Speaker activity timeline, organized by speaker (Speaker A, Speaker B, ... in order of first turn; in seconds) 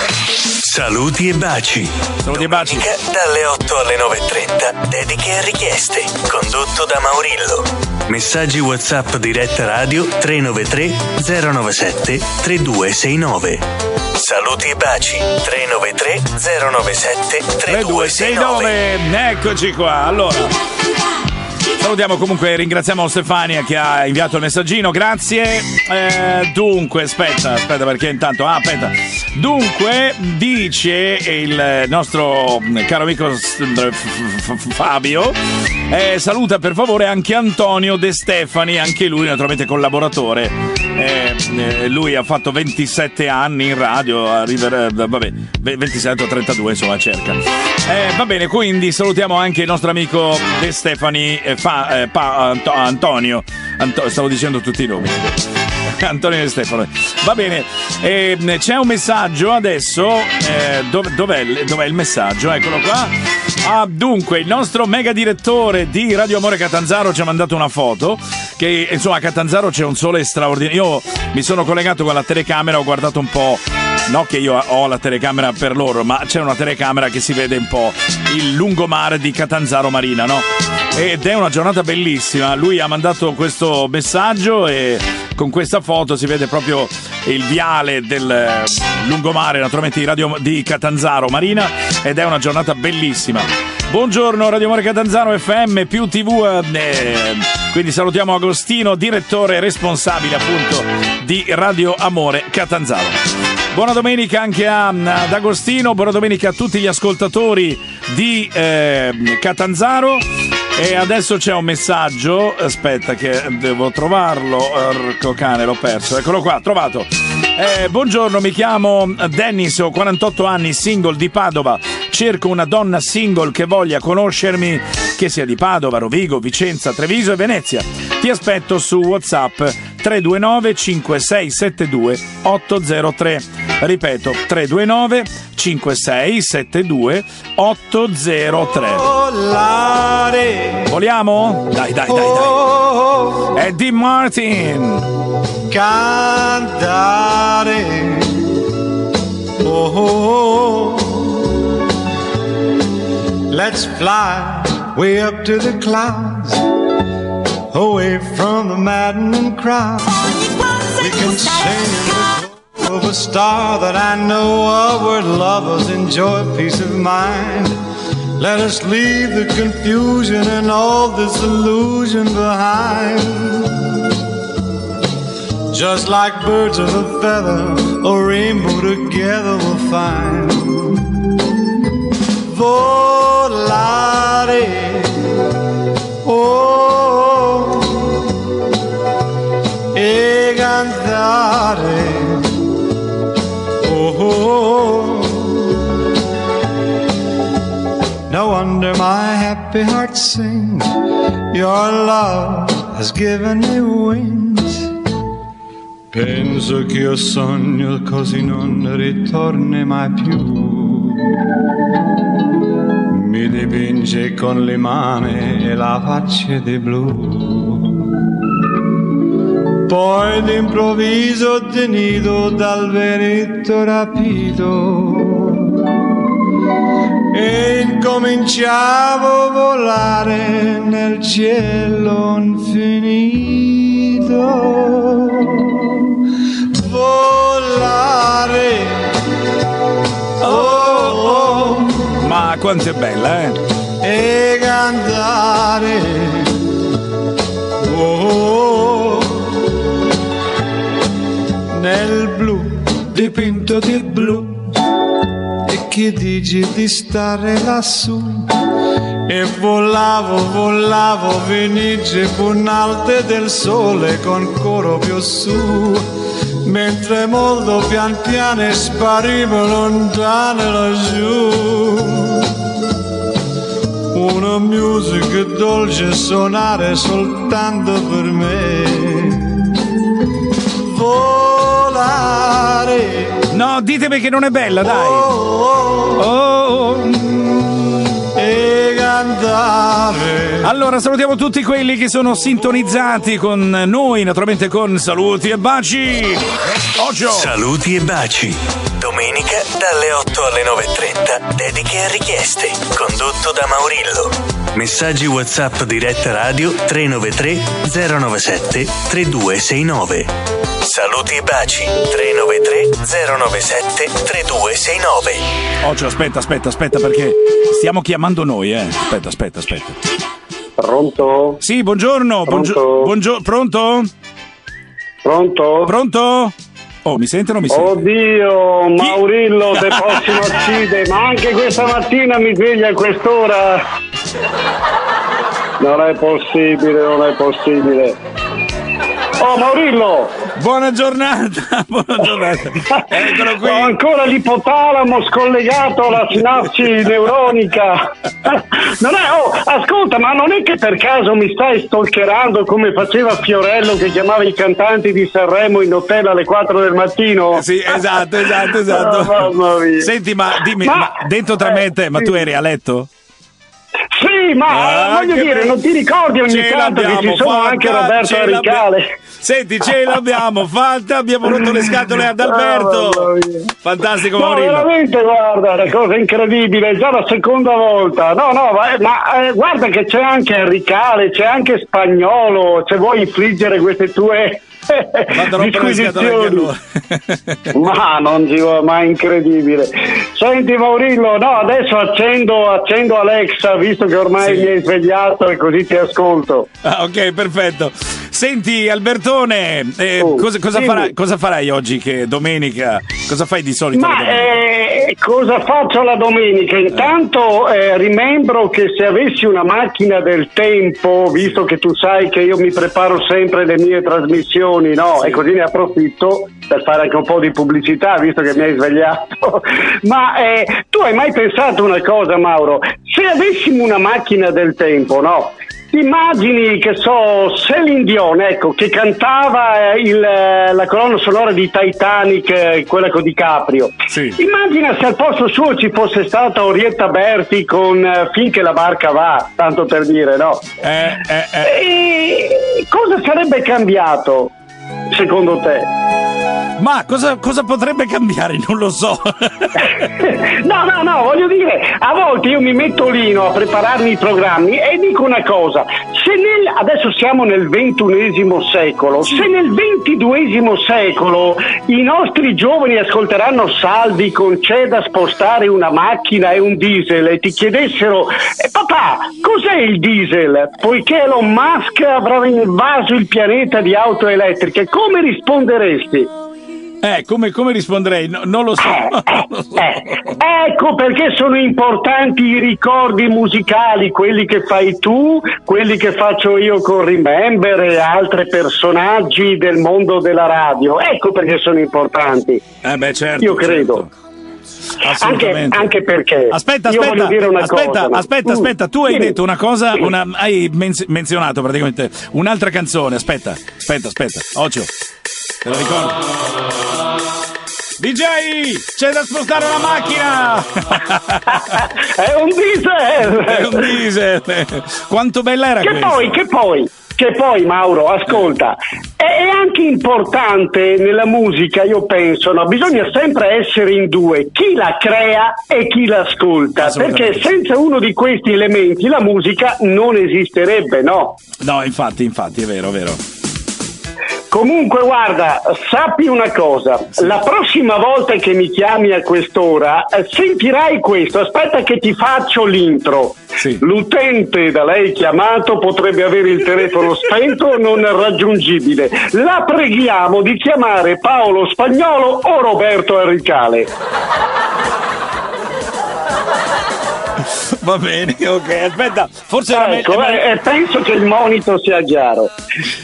Speaker A: 0.6-18.7, 297.3-310.3, 310.8-315.4
Speaker B: 2.2-2.9, 17.7-20.5, 21.8-35.4, 35.9-55.4, 56.0-63.1, 63.6-103.2, 103.7-139.1, 140.9-142.6, 143.5-145.1, 240.4-241.6, 242.2-243.6, 283.5-285.3, 286.2-287.2, 290.6-297.5, 315.8-320.0, 321.6-324.1, 325.9-328.1, 329.8-330.4, 340.6-344.0, 357.5-363.1, 364.7-365.8, 366.5-368.8, 369.4-373.3, 373.8-374.9, 385.3-387.7, 394.4-394.7, 396.8-404.5, 434.1-434.4, 440.8-441.7, 446.8-449.9, 477.0-480.3, 492.8-494.1, 495.0-495.9, 496.5-504.9, 505.6-506.1, 508.0-511.7, 513.2-516.4, 526.8-527.5, 531.6-533.2, 543.6-543.8, 557.8-560.5
Speaker C: 138.9-140.9, 142.1-143.5, 145.7-148.5, 149.6-151.4, 153.5-156.7, 157.7-160.2, 160.9-167.8, 168.4-174.0, 175.7-181.1, 182.4-185.5, 186.2-188.2, 189.9-192.6, 193.8-195.8, 198.3-200.9, 201.5-204.9, 206.1-211.3, 213.1-218.0, 219.8-225.8, 227.3-236.2, 236.7-239.1, 240.4-242.1, 244.0-246.6, 247.8-249.6, 251.7-254.7, 255.6-258.5, 259.2-266.1, 266.6-272.5, 274.1-279.7, 280.8-283.4, 284.8-286.2, 287.3-287.6, 288.3-290.7
Speaker D: 320.8-321.6, 322.5-323.1, 325.2-325.9, 327.7-333.8, 335.8-338.1, 339.4-340.3, 343.0-357.6, 358.7-360.1, 360.8-362.3, 364.1-369.0, 372.4-373.7, 374.3-386.7, 387.7-396.7, 400.2-401.1, 403.9-440.6, 441.6-444.5, 445.1-445.9, 450.2-476.3, 478.8-492.6, 493.4-494.0, 495.1-499.3, 511.5-513.9, 515.8-531.4, 534.5-553.9, 559.7-562.5